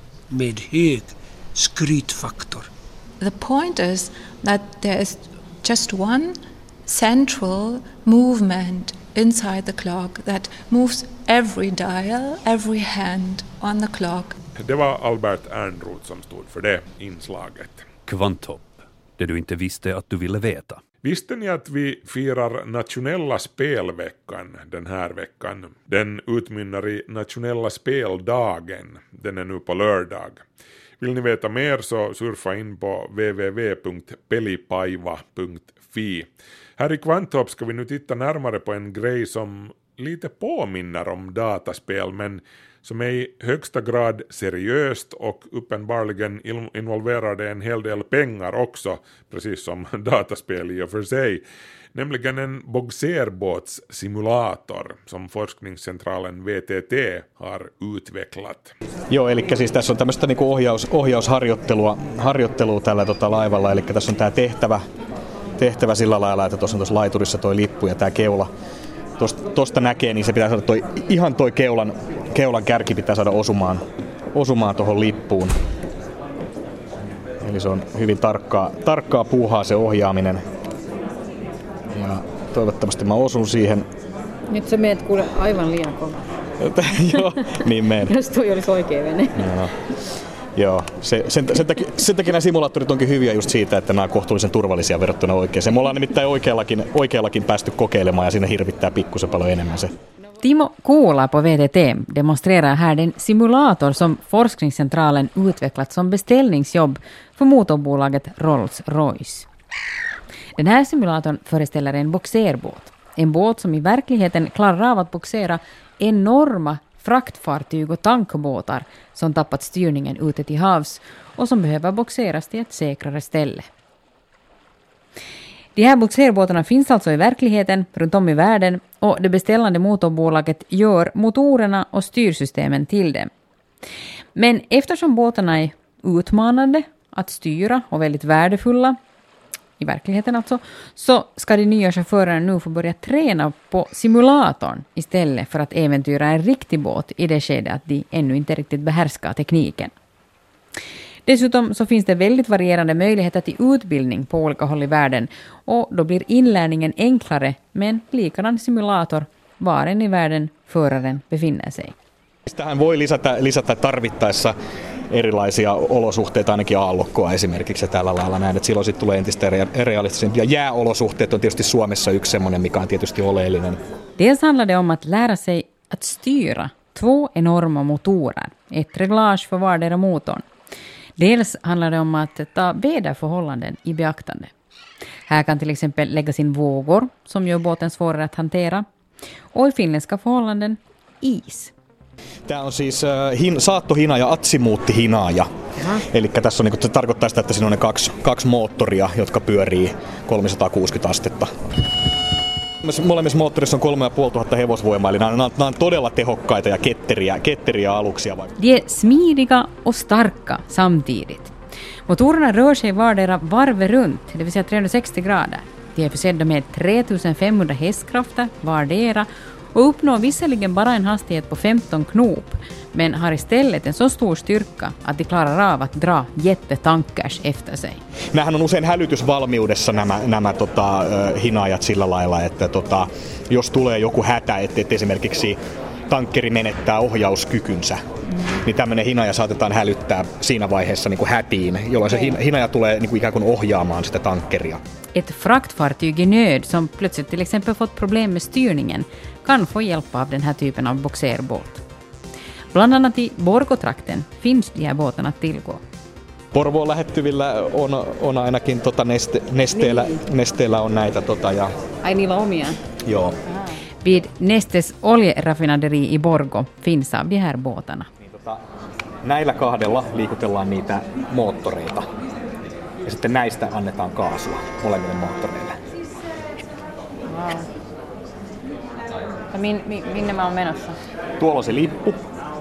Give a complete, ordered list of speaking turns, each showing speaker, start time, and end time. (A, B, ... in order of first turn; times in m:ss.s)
0:00.3-0:02.7 A
0:03.2-0:06.3 B
0:06.8-0:14.4 B
0:14.6-0:17.8 C
0:18.1-0:20.8 D
0:21.0-0:30.4 C
0:31.0-0:51.4 C
0:51.9-0:58.7 C
0:59.1-1:04.8 E
1:05.6-1:08.5 E
1:09.2-1:15.5 E
1:17.4-1:20.4 E
1:21.9-1:23.9 E
1:24.5-1:26.2 F
1:26.6-1:28.1 E
1:28.1-1:29.3 F
1:29.4-1:29.7 E
1:30.5-1:39.9 E
1:40.4-1:49.5 F
1:50.6-2:03.7 F
2:05.8-2:13.3 F
2:14.4-2:19.0 F
2:19.8-2:29.9 F
2:31.2-2:41.9 F
2:42.5-2:44.5 E
2:45.1-2:53.8 E
2:54.2-3:00.4 F
3:01.2-3:04.5 F
3:05.3-3:08.8 F
3:09.5-3:11.7 F
3:12.5-3:21.5 E
3:22.8-3:28.5 E
3:28.6-3:31.5 F
3:32.1-3:48.0 F
3:48.3-3:55.6 E
3:56.1-3:58.0 E
3:58.6-4:04.8 E
4:02.1-4:02.3 F
4:05.1-4:11.8 F
4:12.7-4:15.8 F
4:16.5-4:21.7 E
4:19.7-4:20.2 F
4:22.0-4:22.7 F
4:23.0-4:23.4 E
4:23.5-4:28.1 F
4:28.2-4:28.6 E
4:29.2-4:32.1 E
4:33.0-4:35.8 E
4:37.3-4:37.6 F
4:39.5-4:41.0 F
4:41.4-4:42.3 E